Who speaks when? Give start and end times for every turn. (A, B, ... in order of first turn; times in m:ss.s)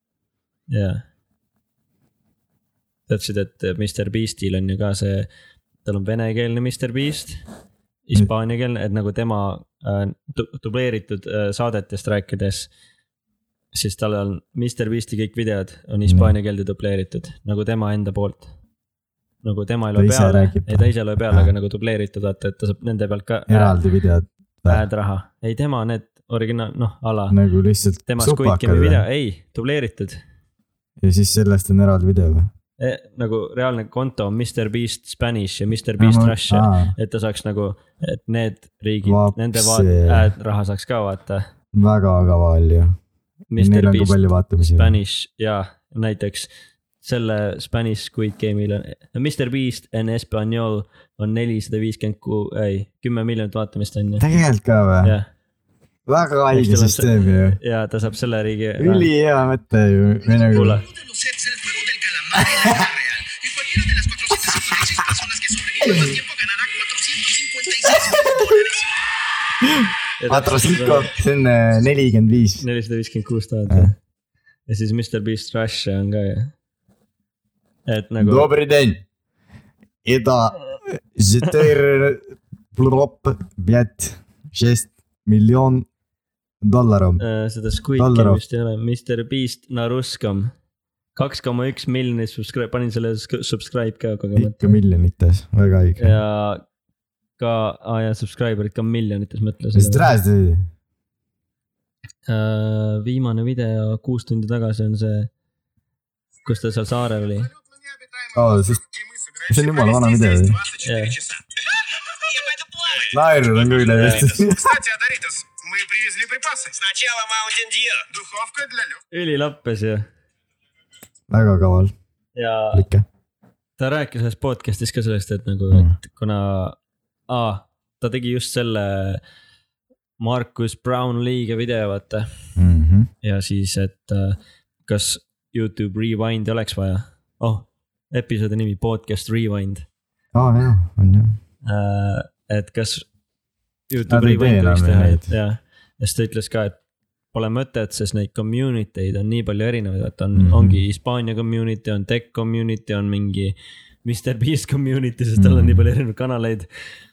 0:00.7-0:01.0 A
0:03.1-0:05.3 A
0:05.8-0:07.4 A
0:08.0-0:12.7 A
0:13.7-0:18.5 A
0:16.0-0:16.3 B
0:19.4-0:23.8 A
0:19.9-0:21.5 B
0:23.5-0:24.8 B
0:24.7-0:27.4 A
0:27.3-0:29.0 B
0:28.0-0:30.2 A
0:31.0-0:32.5 B
0:32.8-0:41.5 A
0:36.0-0:36.9 B
0:39.0-0:40.3 B
0:41.7-0:42.9 B
0:43.5-0:46.5 A
0:43.6-0:45.0 B
0:47.0-0:54.3 A
0:54.2-0:55.1 B
0:55.0-0:55.3 A
0:56.1-0:57.6 B
0:56.5-0:59.1 A
0:58.8-1:00.8 B
1:00.5-1:00.8 A
1:00.9-1:08.9 C
1:02.4-1:02.9 B
1:05.8-1:06.1 B
1:07.9-1:08.6 B
1:09.6-1:12.6 B
1:10.2-1:11.1 A
1:12.6-1:14.0 A
1:14.7-1:16.5 A
1:17.9-1:18.5 A
1:18.2-1:19.0 B
1:20.0-1:22.2 B
1:22.7-1:25.8 B
1:26.6-1:27.2 B
1:27.2-1:30.5 A
1:28.0-1:28.4 B
1:31.1-1:34.8 A
1:34.4-1:36.2 B
1:36.0-1:36.6 A
1:37.4-1:40.1 A
1:39.7-1:40.6 B
1:42.2-1:45.3 A
1:46.4-1:47.5 A
1:47.7-1:59.0 C
1:48.3-1:48.8 B
1:49.5-1:50.6 B
1:50.8-1:51.2 A
1:53.1-1:54.8 B
1:53.8-1:54.3 A
1:59.1-2:00.0 A
2:01.3-2:01.9 B
2:02.3-2:02.8 A
2:02.7-2:03.0 B
2:03.8-2:06.8 A
2:05.7-2:06.0 B
2:07.3-2:09.2 A
2:10.2-2:12.3 A
2:12.6-2:13.1 B
2:13.2-2:19.8 A
2:20.3-2:21.4 B
2:21.6-2:23.1 A
2:23.9-2:26.8 A
2:24.1-2:25.3 B
2:27.3-2:36.7 A
2:30.3-2:30.8 B
2:35.4-2:35.9 B